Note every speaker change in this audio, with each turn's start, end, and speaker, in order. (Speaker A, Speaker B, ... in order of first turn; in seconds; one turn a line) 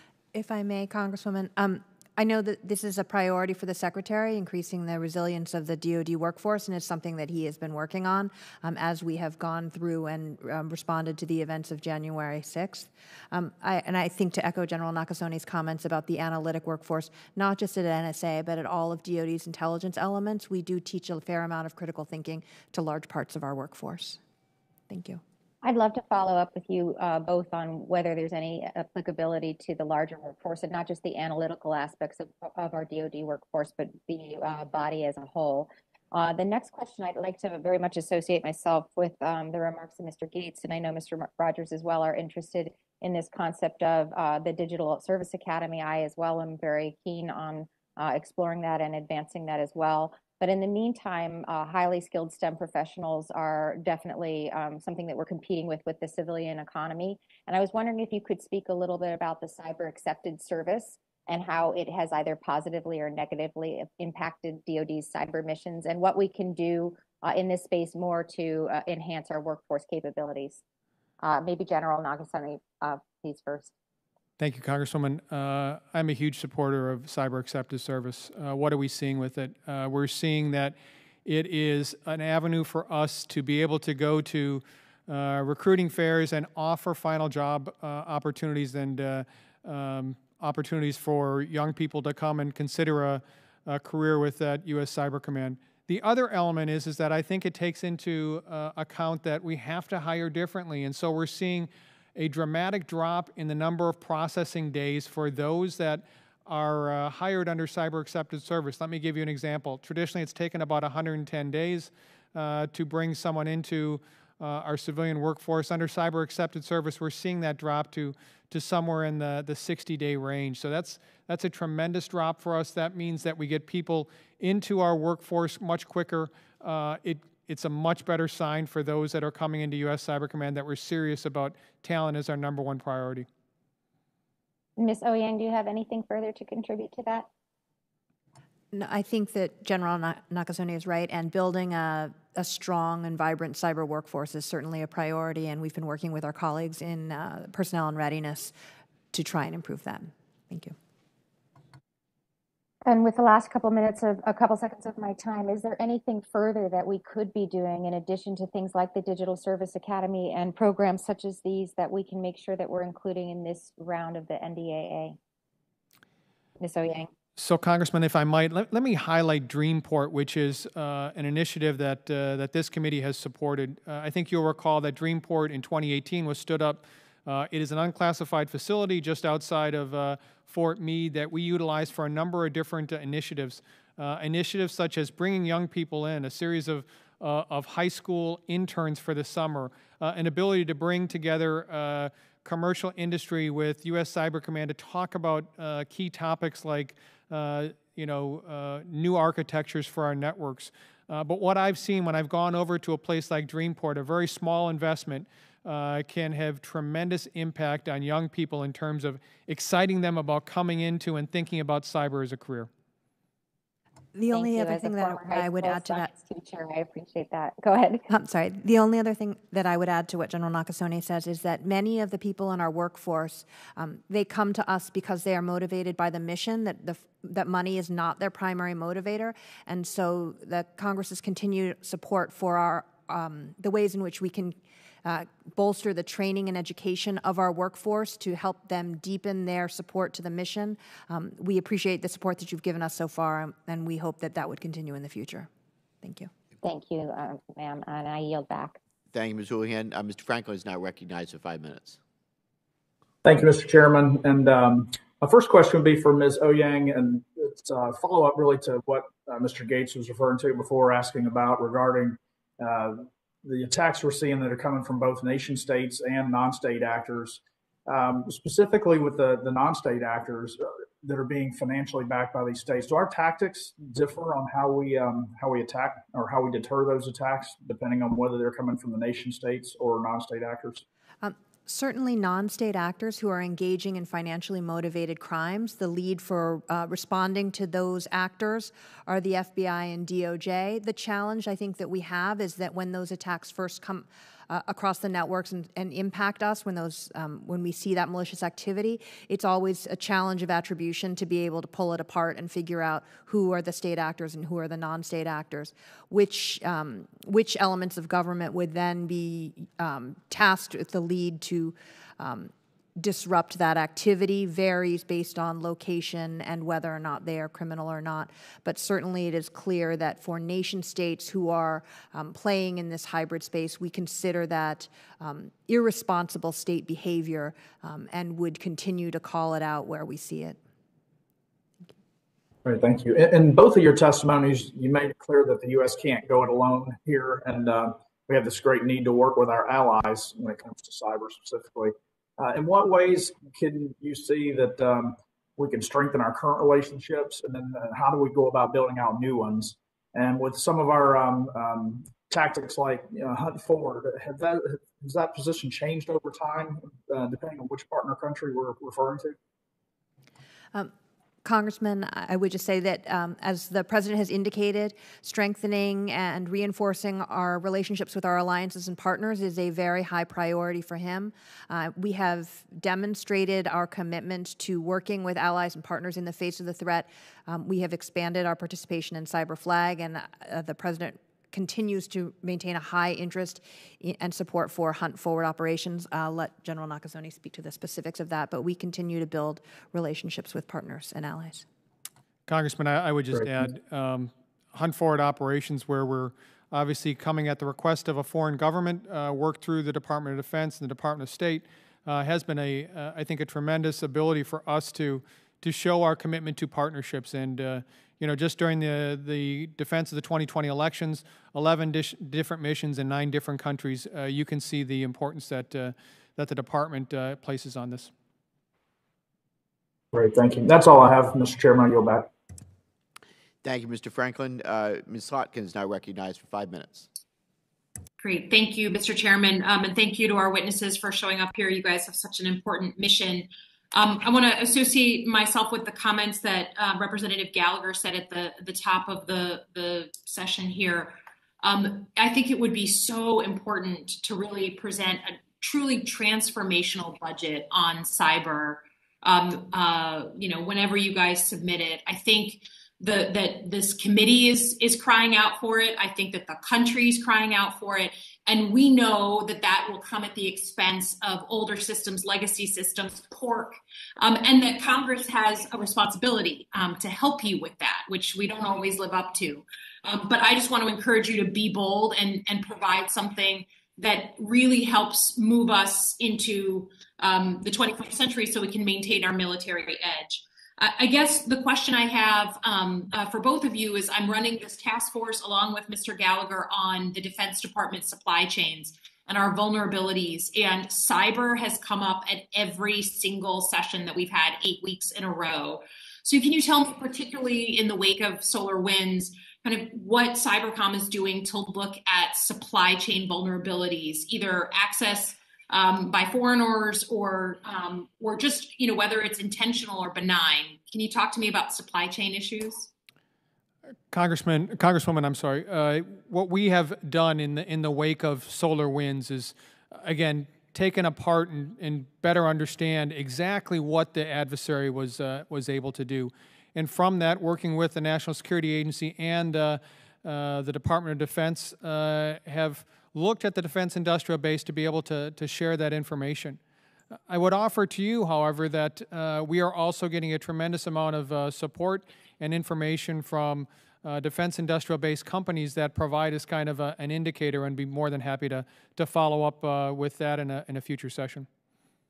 Speaker A: 0.3-24.2
Speaker A: 24.9-25.2
Speaker B: 25.6-70.6
Speaker B: 71.2-73.7
Speaker C: 74.4-133.3
Speaker B: 134.8-137.3
Speaker A: 138.7-148.5
Speaker A: 149.1-150.8
Speaker B: 152.8-165.2
Speaker B: 166.6-167.1
Speaker C: 167.4-212.7
Speaker A: 214.2-216.1
Speaker B: 214.3-218.1
Speaker A: 218.1-245.5
Speaker A: 246.0-246.3
Speaker B: 246.6-248.8
Speaker D: 249.1-252.0
Speaker E: 253.2-280.9
Speaker A: 281.2-330.6
Speaker E: 332.6-359.4
Speaker A: 361.4-391.6
Speaker C: 392.5-418.1
Speaker E: 393.3-393.7
Speaker E: 420.1-422.3
Speaker D: 423.6-427.1
Speaker F: 428.2-512.9
Speaker C: 514.1-536.6
Speaker C: 537.3-551.5